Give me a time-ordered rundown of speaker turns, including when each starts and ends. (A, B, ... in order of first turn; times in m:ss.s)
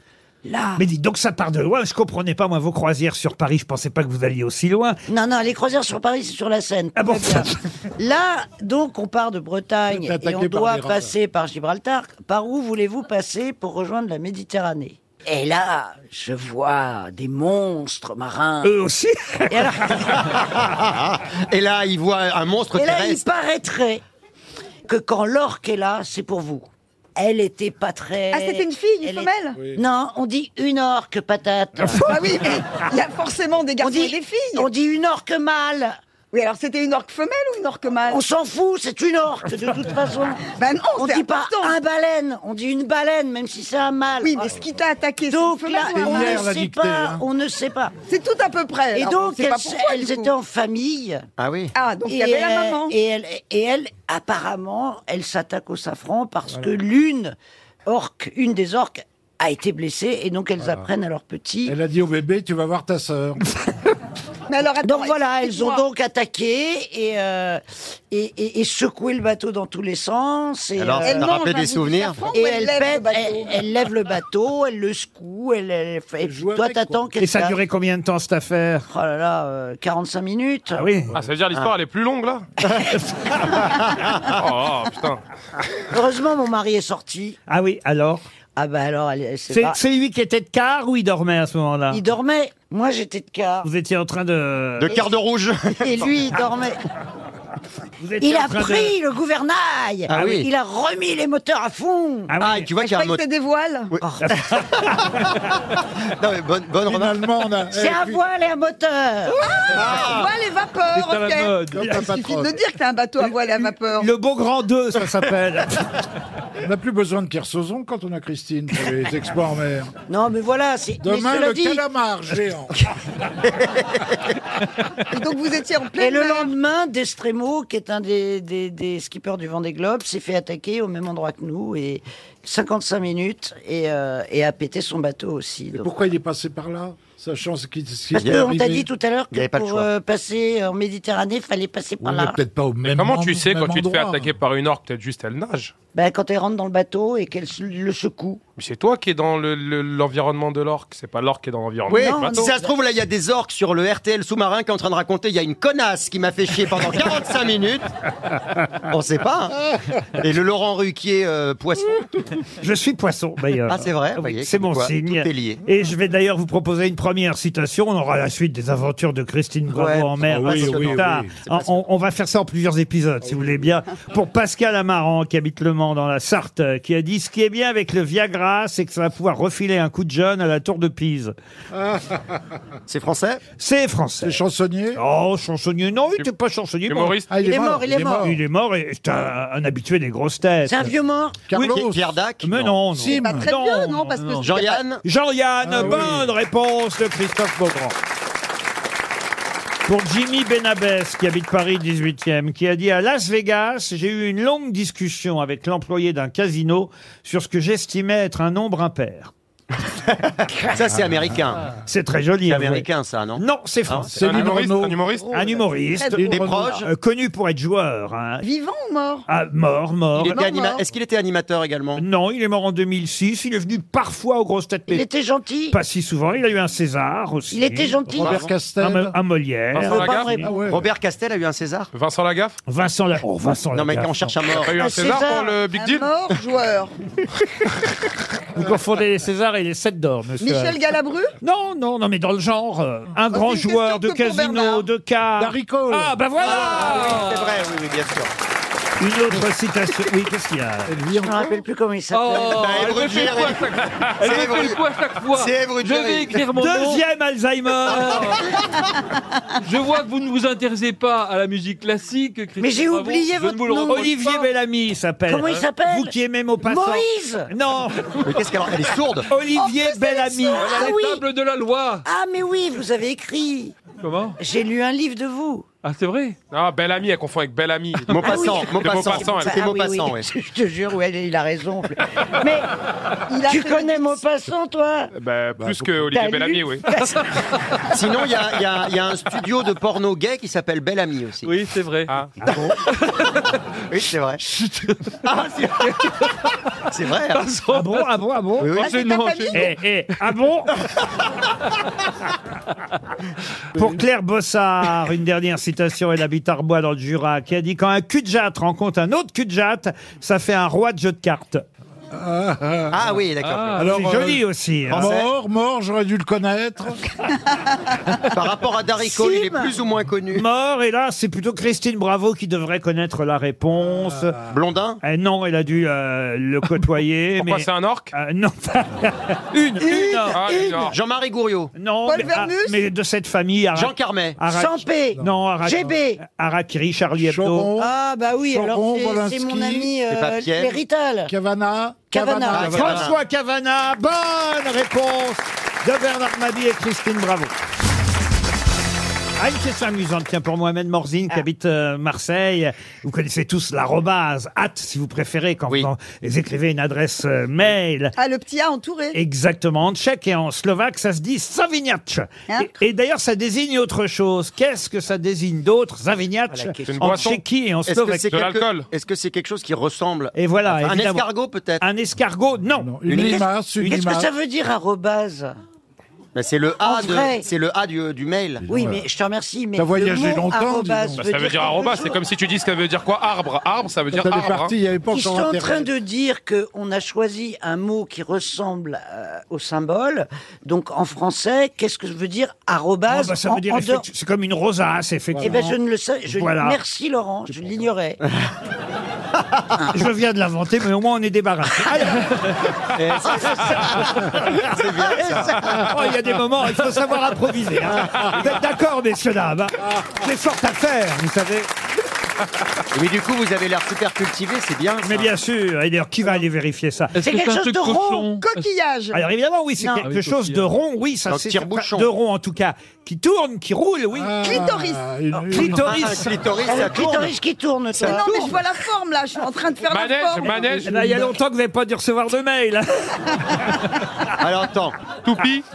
0:00.4-0:00.8 A
0:00.8-0:05.0 B
0:05.1-0:18.7 A
0:07.0-0:07.5 B
0:09.9-0:11.2 C
0:18.6-0:19.9 B
0:19.5-0:20.4 A
0:20.2-0:23.2 D
0:22.8-0:24.0 A
0:24.9-0:32.4 A
0:28.3-0:29.6 E
0:31.9-0:34.7 E
0:33.8-0:36.0 A
0:36.3-0:38.2 E
0:38.1-0:44.5 A
0:40.5-0:41.8 E
0:44.2-0:46.4 E
0:45.3-0:48.0 A
0:45.9-0:47.2 C
0:48.1-0:50.3 E
0:48.9-0:51.2 A
0:51.4-0:51.7 D
0:51.8-0:53.0 E
0:52.1-1:01.8 A
0:56.5-0:56.8 C
1:00.6-1:00.9 C
1:01.7-1:03.4 C
1:04.5-1:05.8 E
1:04.8-1:11.3 A
1:10.8-1:12.3 D
1:11.0-1:13.6 E
1:12.3-1:17.6 A
1:16.2-1:17.1 C
1:17.2-1:18.9 B
1:18.9-1:20.9 A
1:20.8-1:21.1 B
1:21.1-1:22.4 F
1:23.7-1:24.3 D
1:24.2-1:25.2 F
1:25.9-1:27.4 A
1:27.5-1:28.2 B
1:28.6-1:29.8 A
1:29.5-1:32.0 B
1:31.9-1:33.7 A
1:33.6-1:35.0 B
1:34.8-1:36.1 D
1:35.8-1:36.8 A
1:38.0-1:39.0 B
1:38.2-1:42.4 A
1:40.1-1:40.5 D
1:42.3-1:42.7 B
1:42.4-1:43.2 D
1:42.8-1:43.9 E
1:43.9-1:45.2 D
1:44.2-1:45.3 B
1:46.0-1:47.2 D
1:46.9-1:48.2 C
1:47.7-1:49.4 A
1:49.3-1:54.1 E
1:49.7-1:50.3 D
1:51.0-1:52.1 B
1:51.7-1:52.6 C
1:54.0-1:55.9 B
1:56.6-1:59.9 C
2:00.1-2:01.8 A
2:01.0-2:02.8 C
2:03.7-2:04.0 D
2:05.1-2:06.5 E
2:06.0-2:15.9 A
2:15.7-2:18.9 C
2:18.1-2:22.4 A
2:18.2-2:18.6 D
2:19.3-2:19.9 D
2:22.0-2:24.3 C
2:22.9-2:25.8 F
2:25.9-2:28.4 A
2:28.6-2:32.5 F
2:31.9-2:37.9 D
2:31.9-2:32.8 A
2:38.9-2:39.6 D
2:40.2-2:42.1 D
2:42.6-3:01.3 B
2:43.7-2:45.6 D
2:49.7-2:51.8 D
2:50.2-2:51.3 C
3:01.8-3:02.2 C
3:02.9-3:03.4 D
3:03.6-3:04.4 B
3:04.2-3:05.0 C
3:05.0-3:07.2 B
3:06.9-3:07.3 F
3:07.3-3:08.4 C
3:07.4-3:08.3 A
3:08.2-3:10.9 B
3:10.7-3:11.5 A
3:11.5-3:12.2 C
3:11.5-3:11.8 B
3:11.7-3:12.8 D
3:12.4-3:14.2 B
3:12.9-3:13.5 C
3:13.1-3:14.8 E
3:14.2-3:14.5 G
3:14.4-3:15.0 D
3:15.0-3:18.0 B
3:15.6-3:16.3 C
3:19.9-3:29.3 B
3:30.1-3:31.6 D
3:31.9-3:34.2 B
3:32.5-3:34.7 D
3:34.1-3:35.2 C
3:34.2-3:35.4 F
3:35.3-3:38.4 B
3:35.4-3:36.8 E
3:36.1-3:36.7 C
3:36.2-3:36.9 D
3:38.4-3:39.3 E
3:39.3-3:40.4 B
3:40.2-3:42.0 D
3:40.2-3:40.9 E
3:42.0-3:45.0 B
3:44.9-3:45.8 A
3:45.7-3:48.2 B
3:47.5-3:48.5 A
3:48.1-3:49.2 C
3:48.2-3:48.5 D
3:48.8-3:50.5 B
3:49.7-3:50.4 F
3:49.8-3:50.6 A
3:50.4-3:50.9 C
3:50.6-3:51.9 D
3:51.9-3:52.6 F
3:52.7-3:54.4 B
3:53.7-3:54.8 D
3:54.6-3:56.1 F
3:54.7-3:55.6 A
3:55.7-3:57.0 E
3:58.6-4:00.8 B
4:00.4-4:01.3 E
4:01.4-4:07.2 B
4:03.3-4:04.9 E
4:05.4-4:06.2 C
4:06.4-4:07.6 G
4:06.4-4:08.3 D
4:09.0-4:11.0 B
4:10.9-4:11.6 C
4:11.2-4:12.8 A
4:12.1-4:17.0 G
4:12.5-4:14.8 D
4:15.3-4:16.4 D
4:16.5-4:18.3 B
4:17.8-4:18.6 G
4:19.6-4:24.5 G
4:22.6-4:24.1 A
4:23.8-4:28.1 B
4:25.3-4:27.5 A
4:28.2-4:29.3 D
4:29.3-4:30.8 B
4:29.6-4:30.8 E
4:30.5-4:32.1 G
4:30.6-4:31.2 A
4:32.0-4:33.7 A
4:34.0-4:34.4 G
4:34.4-4:35.6 A
4:35.8-4:36.4 G
4:36.5-4:39.6 F
4:38.1-4:40.3 D
4:38.2-4:42.7 A
4:43.3-4:44.2 E
4:43.4-4:45.1 A
4:45.2-4:46.9 F
4:45.6-4:46.0 C
4:46.1-4:47.2 A
4:47.9-4:51.6 D
4:51.4-4:52.2 G
4:52.4-4:52.7 B
4:52.4-4:52.7 D
4:52.9-4:53.5 G
4:53.9-4:54.4 D
4:54.6-4:55.1 G
4:55.3-4:56.1 D
4:55.8-4:56.2 G
4:56.9-4:57.5 D
4:57.3-4:59.7 G
4:57.7-4:58.8 B
4:58.6-4:59.0 D
4:58.7-4:59.7 E
4:59.5-5:00.8 B
5:03.8-5:11.6 B
5:12.1-5:13.2 C
5:12.9-5:14.0 D
5:13.4-5:13.8 G
5:13.8-5:17.0 C
5:13.8-5:15.2 B
5:14.9-5:15.3 D
5:18.3-5:20.4 D
5:19.0-5:19.7 A
5:20.3-5:24.4 B
5:23.8-5:24.6 C
5:24.5-5:25.0 D
5:25.0-5:30.4 B
5:27.4-5:28.1 F
5:29.9-5:30.8 A
5:30.0-5:30.5 E
5:30.3-5:31.0 F
5:30.9-5:31.7 D
5:31.8-5:37.7 B
5:32.0-5:32.8 E
5:33.7-5:34.4 D
5:34.5-5:36.2 A
5:37.2-5:40.0 C
5:37.8-5:41.3 A
5:40.1-5:40.8 D
5:41.3-5:43.1 C
5:42.1-5:43.0 A
5:42.5-5:43.2 D
5:42.6-5:47.5 B
5:49.4-5:58.2 B
5:58.2-5:59.2 E
5:59.1-6:08.3 B
6:06.5-6:07.3 A
6:06.9-6:07.3 F
6:07.1-6:11.8 D
6:08.2-6:08.9 F
6:10.3-6:11.3 B
6:11.8-6:14.0 B
6:12.8-6:14.3 C
6:13.1-6:13.4 D
6:13.3-6:15.5 A
6:16.4-6:18.7 D
6:16.8-6:17.5 A
6:18.6-6:19.0 C
6:18.7-6:22.2 A
6:19.8-6:21.3 C
6:21.2-6:24.7 F
6:24.1-6:25.9 C
6:25.1-6:34.0 A
6:33.1-6:35.8 B
6:35.3-6:35.7 C
6:35.4-6:38.2 A
6:36.3-6:36.8 B
6:37.5-6:37.8 C
6:39.9-6:42.3 B
6:42.9-6:45.9 D
6:43.7-6:51.7 B
6:52.9-6:55.3 D
6:55.0-6:57.2 B
6:57.2-6:58.7 G
6:57.2-6:58.3 A
6:58.4-6:59.2 E
6:59.1-7:04.6 B
6:59.8-7:00.1 A
7:00.0-7:00.7 G
7:01.3-7:02.1 D
7:04.1-7:06.0 C
7:04.4-7:05.0 E
7:05.5-7:06.3 B
7:05.5-7:07.4 D
7:06.6-7:08.6 A
7:08.0-7:11.2 E
7:09.9-7:11.0 F
7:10.8-7:13.8 B
7:14.4-7:15.1 D
7:15.2-7:15.6 F